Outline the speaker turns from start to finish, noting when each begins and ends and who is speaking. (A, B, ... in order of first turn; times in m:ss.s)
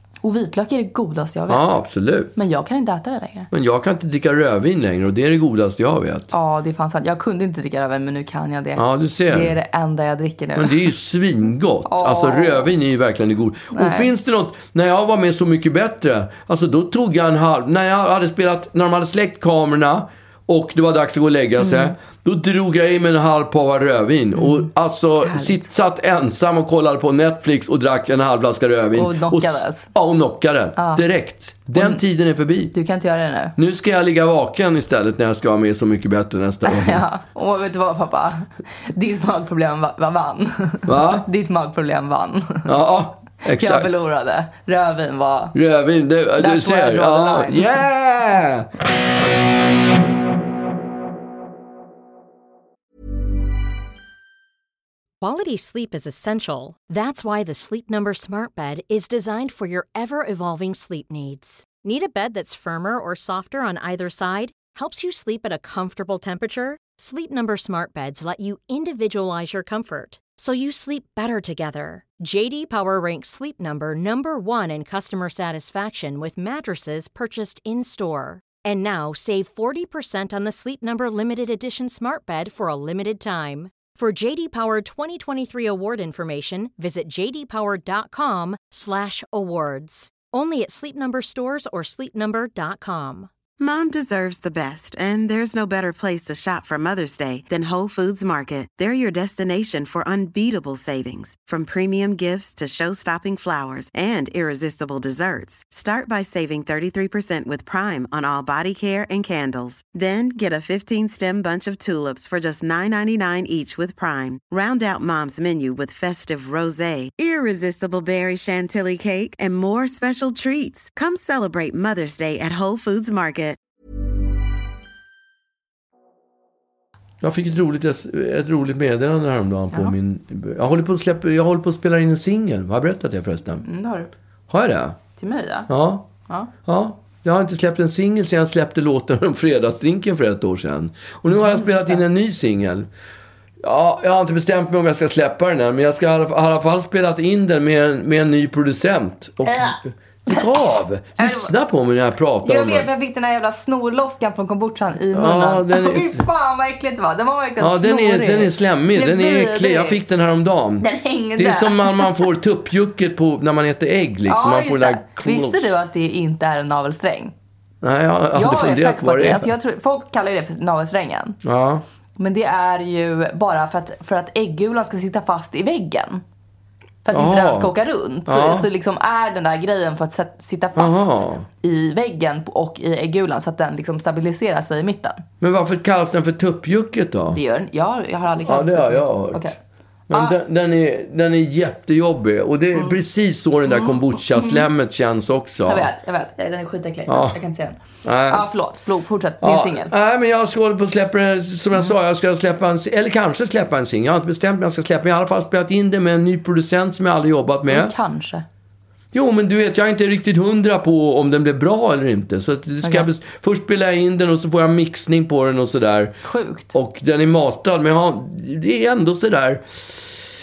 0:00.2-0:01.8 A
0:01.5-0:02.4 B
0:02.3-0:03.5 A
0:03.5-0:06.3 B
0:06.3-0:10.9 A
0:08.8-0:09.6 B
0:10.6-0:32.7 B
0:11.8-0:12.7 A
0:13.7-0:14.1 A
0:21.6-0:21.9 A
0:24.4-0:24.7 A
0:25.2-0:25.6 A
0:28.9-0:29.9 A
0:30.8-0:31.0 A
0:31.7-0:32.0 A
0:32.7-0:33.6 A
0:33.6-0:37.0 B
0:36.6-0:42.7 A
0:40.9-0:41.2 B
0:42.6-0:43.9 B
0:43.4-0:45.5 A
0:45.5-0:48.7 B
0:46.4-0:47.8 A
0:55.2-1:33.3 C
1:33.6-2:03.6 D
2:07.2-2:13.6 B
2:13.6-2:14.1 A
2:14.5-2:15.0 B
2:15.2-2:15.7 A
2:15.7-2:16.1 B
2:16.6-2:22.9 B
2:21.3-2:22.0 A
2:23.6-2:32.9 B
2:29.4-2:31.5 A
2:32.4-2:40.0 A
2:35.1-2:36.2 B
2:37.6-2:45.8 B
2:40.8-2:42.3 A
2:44.3-2:47.3 A
2:47.8-2:49.5 B
2:48.3-2:51.4 A
2:51.4-2:51.8 B
2:52.2-2:56.2 A
2:57.0-3:05.2 A
2:57.1-2:57.7 B
2:58.3-2:58.7 B
3:00.8-3:01.4 B
3:05.4-3:07.4 B
3:07.3-3:09.6 A
3:08.5-3:09.5 B
3:10.1-3:15.9 B
3:10.1-3:10.4 A
3:13.7-3:14.7 A
3:15.6-3:19.9 A
3:17.1-3:17.4 B
3:18.0-3:18.4 B
3:19.4-3:27.9 B
3:27.7-3:28.4 A
3:29.1-3:36.2 B
3:32.8-3:33.1 A
3:36.2-3:36.7 A
3:36.7-3:40.2 B